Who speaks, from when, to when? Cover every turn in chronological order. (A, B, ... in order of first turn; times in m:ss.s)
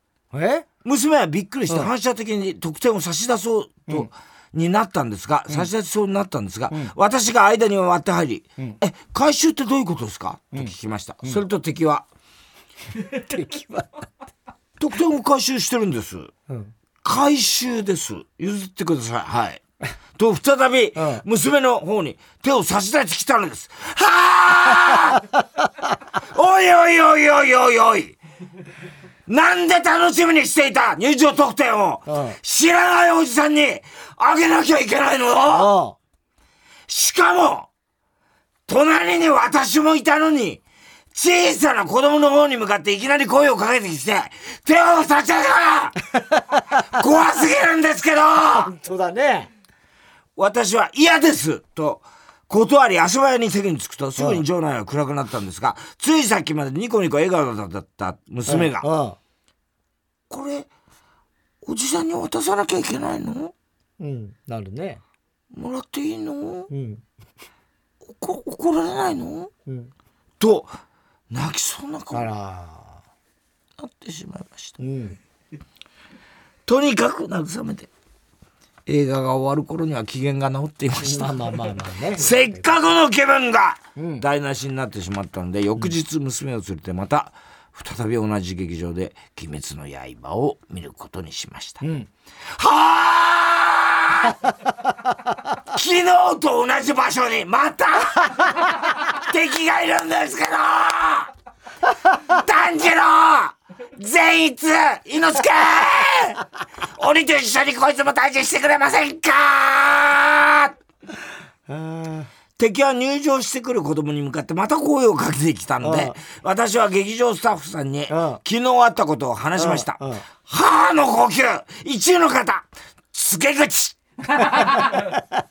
0:00.3-0:00.6 A
0:00.8-0:12.1 B
0:13.1-0:14.0 A
0:14.8-0:16.3 B
0:16.5-0:16.7 A
0:17.0-0:19.6 B
0:20.2-0:25.3 B
0:21.0-0:21.2 A
0:26.2-0:28.2 B
0:29.2-0:35.7 B
0:32.1-0:32.4 A
0:35.5-0:36.0 A
0:36.9-0:37.7 B
0:38.7-0:46.1 B
0:46.7-0:48.7 B
0:48.5-0:49.5 A
0:50.4-0:58.9 B
0:54.2-0:54.4 A
0:58.5-0:59.2 A
1:00.3-1:00.7 B
1:01.6-1:03.5 B
1:04.0-1:05.0 A
1:05.5-1:06.7 B
1:06.7-1:07.0 A
1:08.1-1:09.5 B
1:10.4-1:10.7 B
1:11.3-1:12.3 B
1:12.1-1:13.0 A
1:13.8-1:14.8 B
1:14.8-1:15.2 A
1:16.6-1:17.9 B
1:18.8-1:31.8 B
1:21.0-1:22.7 A
1:24.0-1:24.2 A
1:31.8-1:32.1 A
1:32.5-1:34.4 B
1:35.6-1:41.3 B
1:42.1-1:50.8 B
1:51.7-1:52.3 A
1:52.6-2:04.0 B
1:55.8-1:56.2 A
1:58.1-1:58.4 A
1:59.6-2:00.2 A